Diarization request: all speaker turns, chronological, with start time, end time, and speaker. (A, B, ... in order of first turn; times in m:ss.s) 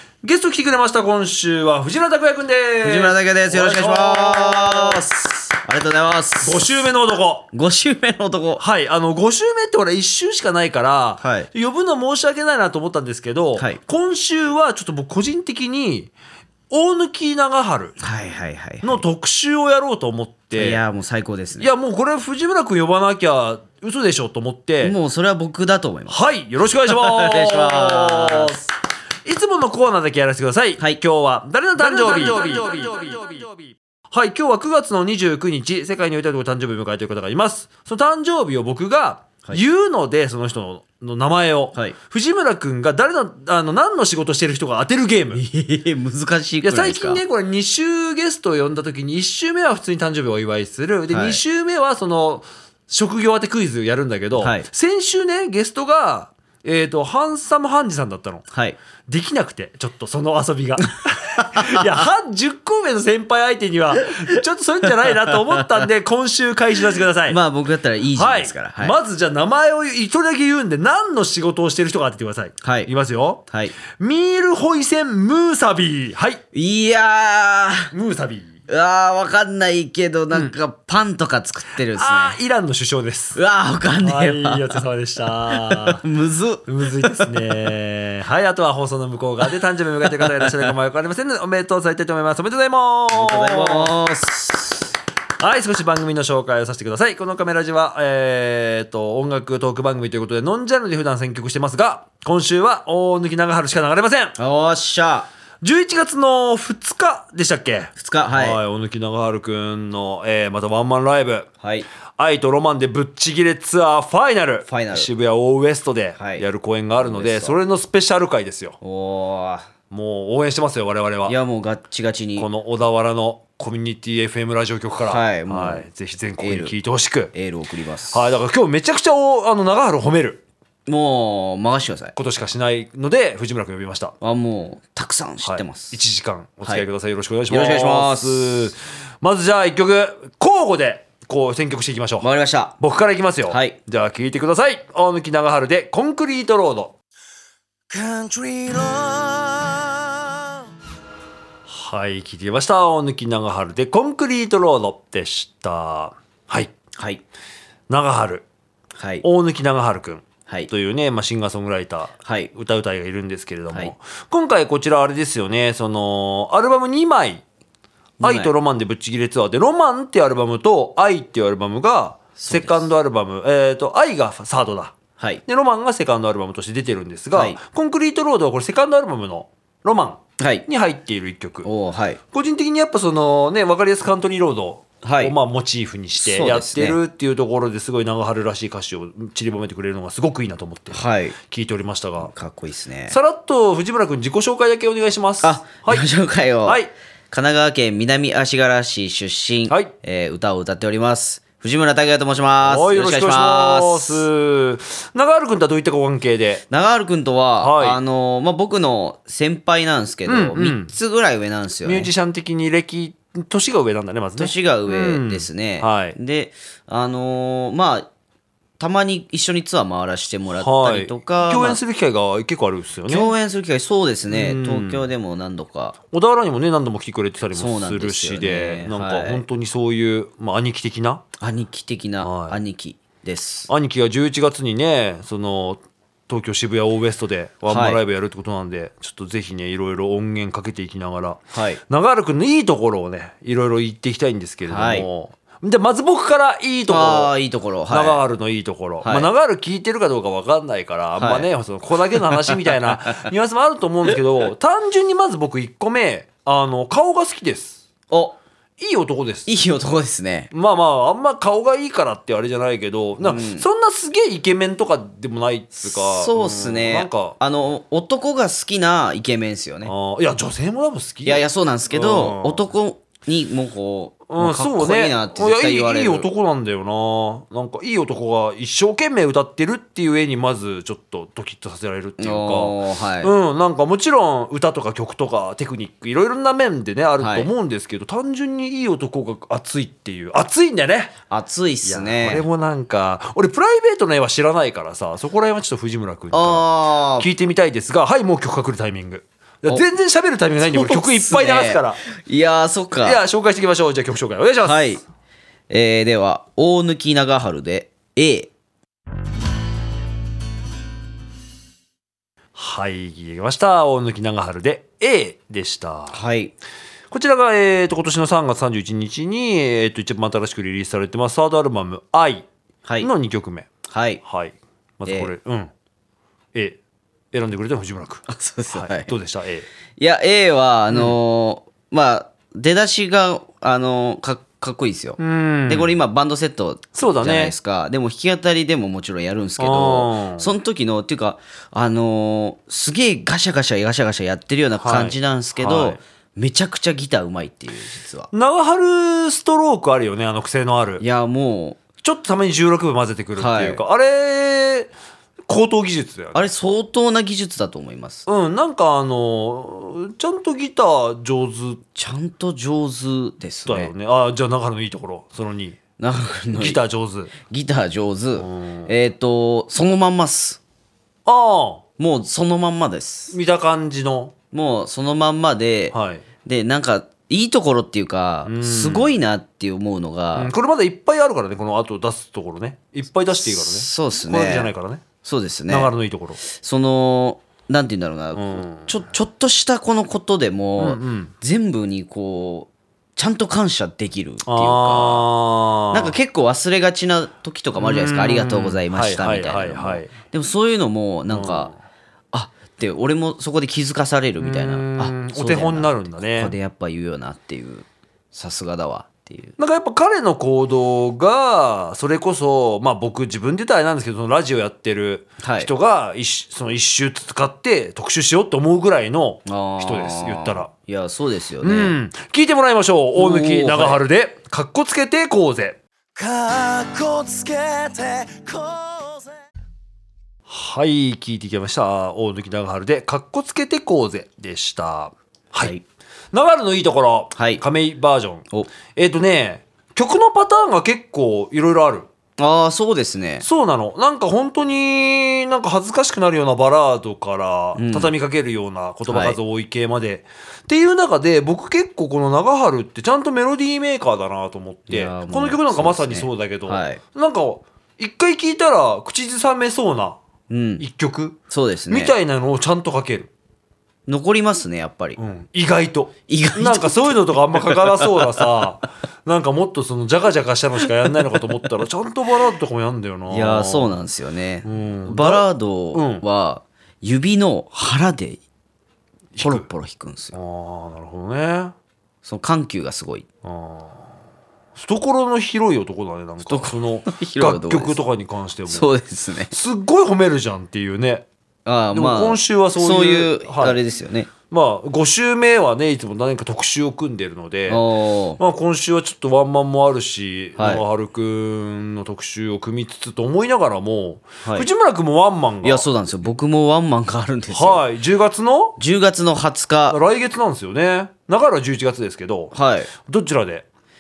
0:00.2-0:05.2 A
0:02.8-0:06.9 B
0:06.4-0:07.5 A
0:07.5-0:08.6 B
0:08.6-0:16.1 A
0:11.2-0:11.5 B
0:16.7-0:18.0 A
0:18.0-0:19.0 B
0:18.8-0:20.8 A
0:20.6-0:21.7 B
0:21.6-0:25.0 A
0:24.8-0:26.2 B
0:26.1-0:28.7 A
0:26.9-0:28.6 B
0:29.2-0:33.5 A
0:34.1-0:45.4 A
0:45.3-0:47.2 B
0:46.6-0:58.4 A
0:51.1-0:51.4 B
0:54.4-0:54.7 B
0:58.5-0:58.8 B
0:59.1-1:07.4 A
1:01.6-1:01.9 B
1:07.2-1:09.0 B
1:08.1-1:13.4 A
1:12.6-1:12.9 B
1:13.5-1:13.8 B
1:13.9-1:16.4 A
1:16.5-1:17.9 B
1:17.9-1:18.5 A
1:18.7-1:22.4 B
1:21.8-1:23.4 A
1:23.4-1:24.8 B
1:24.0-1:26.0 A
1:25.5-1:27.5 B
1:26.7-1:33.9 A
1:30.0-1:30.7 B
1:33.1-1:34.9 B
1:35.4-1:44.4 A
1:44.4-1:45.3 B
1:45.6-1:51.5 A
1:48.0-1:48.6 B
1:51.6-1:51.9 B
1:52.2-1:58.8 A
1:54.7-1:55.1 B
1:56.2-1:56.4 B
1:57.0-1:57.6 B
1:58.8-1:59.7 B
1:59.9-2:01.4 A
2:01.3-2:02.5 B
2:02.4-2:07.3 A
2:05.0-2:05.9 B
2:06.4-2:06.8 B
2:07.3-2:08.4 B
2:08.1-2:10.4 A
2:10.9-2:12.2 B
2:12.2-2:14.2 A
2:14.2-2:16.0 B
2:15.4-2:22.3 A
2:17.5-2:18.7 B
2:22.2-2:22.8 B
2:22.8-2:26.9 A
2:23.5-2:23.8 B
2:28.0-2:30.4 B
2:31.7-2:36.7 A
2:37.0-2:37.2 B
2:37.9-2:38.4 A
2:39.0-2:39.2 B
2:39.2-2:47.4 A
2:42.2-2:42.5 B
2:48.2-2:48.5 B
2:48.2-3:01.7 A
2:52.4-2:52.8 B
2:57.3-2:57.6 B
3:00.4-3:00.7 B
3:01.6-3:02.2 B
3:02.3-3:12.3 A
3:05.0-3:05.4 B
3:06.2-3:07.0 B
3:10.9-3:11.4 B
3:12.2-3:13.2 B
3:13.1-3:16.0 A
3:15.4-3:24.3 B
3:16.6-3:16.9 A
3:22.6-3:26.6 A
3:26.7-3:32.1 B
3:27.6-3:28.0 A
3:30.3-3:30.9 A
3:31.8-3:36.2 A
3:34.4-3:38.1 B
3:38.8-3:41.8 B
3:40.6-3:43.3 A
3:43.1-3:46.0 B
3:44.3-3:45.1 A
3:46.1-3:51.2 A
3:47.5-3:49.4 B
3:51.4-3:53.7 B
3:52.2-3:52.6 A
3:53.7-4:07.3 A
3:57.7-3:58.0 B
4:01.5-4:01.8 B
4:04.6-4:05.1 B
4:06.9-4:08.2 B
4:07.9-4:17.8 A
4:09.0-4:09.3 B
4:11.2-4:11.5 B
4:12.2-4:12.9 B
4:18.1-4:18.4 B
4:18.8-4:19.5 A
4:19.5-4:20.5 B
4:20.5-4:27.4 A
4:23.2-4:23.7 B
4:25.8-4:29.9 B
4:29.8-4:32.7 A
4:31.3-4:36.3 B
4:34.3-4:51.2 A
4:42.2-4:43.3 B
4:47.2-4:47.5 B
4:51.3-4:52.5 B
4:51.8-5:02.0 A
4:56.3-4:57.3 B
5:00.6-5:03.2 B
5:03.0-5:05.0 A
5:04.6-5:05.0 B
5:05.7-5:08.5 B
5:12.6-5:16.2 A
5:16.1-5:16.5 B
5:17.1-5:22.4 A
5:22.8-5:23.1 B
5:23.0-5:23.7 A
5:23.9-5:24.2 B
5:24.2-5:25.7 A
5:25.1-5:25.3 B
5:27.3-5:29.7 A
5:28.3-5:29.1 B
5:30.0-5:48.3 B
5:30.9-5:31.2 A
5:35.2-5:36.0 A
5:37.0-5:37.5 A
5:39.6-5:40.6 A
5:44.8-5:46.0 A
5:48.3-5:51.0 A
5:51.0-5:51.8 B
5:52.0-5:54.9 A
5:53.4-5:53.8 B
5:55.5-5:56.7 A
5:56.4-5:58.3 B
5:58.3-6:01.8 A
6:02.0-6:03.9 B
6:03.7-6:05.8 A
6:06.0-6:06.8 B
6:06.5-6:07.3 A
6:07.5-6:10.6 B
6:08.4-6:08.9 A
6:11.3-6:11.8 A
6:12.0-6:13.4 B
6:13.3-6:14.3 A
6:14.5-6:20.5 B
6:15.9-6:16.2 A
6:18.5-6:19.1 A
6:20.3-6:25.0 A
6:23.3-6:24.7 B
6:25.2-6:35.3 B
6:25.7-6:26.4 A
6:28.3-6:29.0 A
6:30.8-6:31.3 A
6:34.4-6:36.2 A
6:35.9-6:41.7 B
6:37.8-6:40.1 A
6:41.3-6:41.8 A
6:42.3-6:49.6 B
6:44.4-6:46.6 A
6:49.6-7:00.7 A
6:55.4-6:55.7 B
6:59.5-7:02.0 B
7:01.6-7:05.8 A
7:03.2-7:04.0 B
7:06.2-7:09.2 C
7:10.5-7:15.8 A
7:16.3-7:22.1 A
7:17.4-7:17.6 B
7:22.4-7:23.4 B
7:23.4-7:40.2 A
7:27.8-7:28.1 B
7:29.1-7:29.4 B
7:34.9-7:37.0 B
7:40.5-7:40.8 B
7:40.8-7:41.4 A
7:41.5-7:42.2 B
7:41.9-7:43.3 A
7:44.1-7:45.2 B
7:45.2-7:53.9 A
7:46.3-7:48.5 B
7:53.3-7:58.4 B
7:54.6-7:56.2 A
7:59.4-7:59.7 A
7:59.4-8:00.4 B
8:00.3-8:01.8 A
8:02.2-8:03.3 B
8:03.4-8:04.0 A
8:04.8-8:08.9 A
8:06.4-8:08.0 B
8:08.7-8:09.5 B
8:09.5-8:11.3 A
8:11.6-8:14.3 B
8:11.9-8:13.8 A
8:14.5-8:17.9 A
8:17.7-8:18.4 B
8:18.4-8:25.9 A
8:20.6-8:20.8 B
8:25.6-8:27.9 B
8:27.5-8:28.8 A
8:28.8-8:30.0 B
8:29.9-8:32.5 A
8:32.5-8:32.9 B
8:33.0-8:33.6 A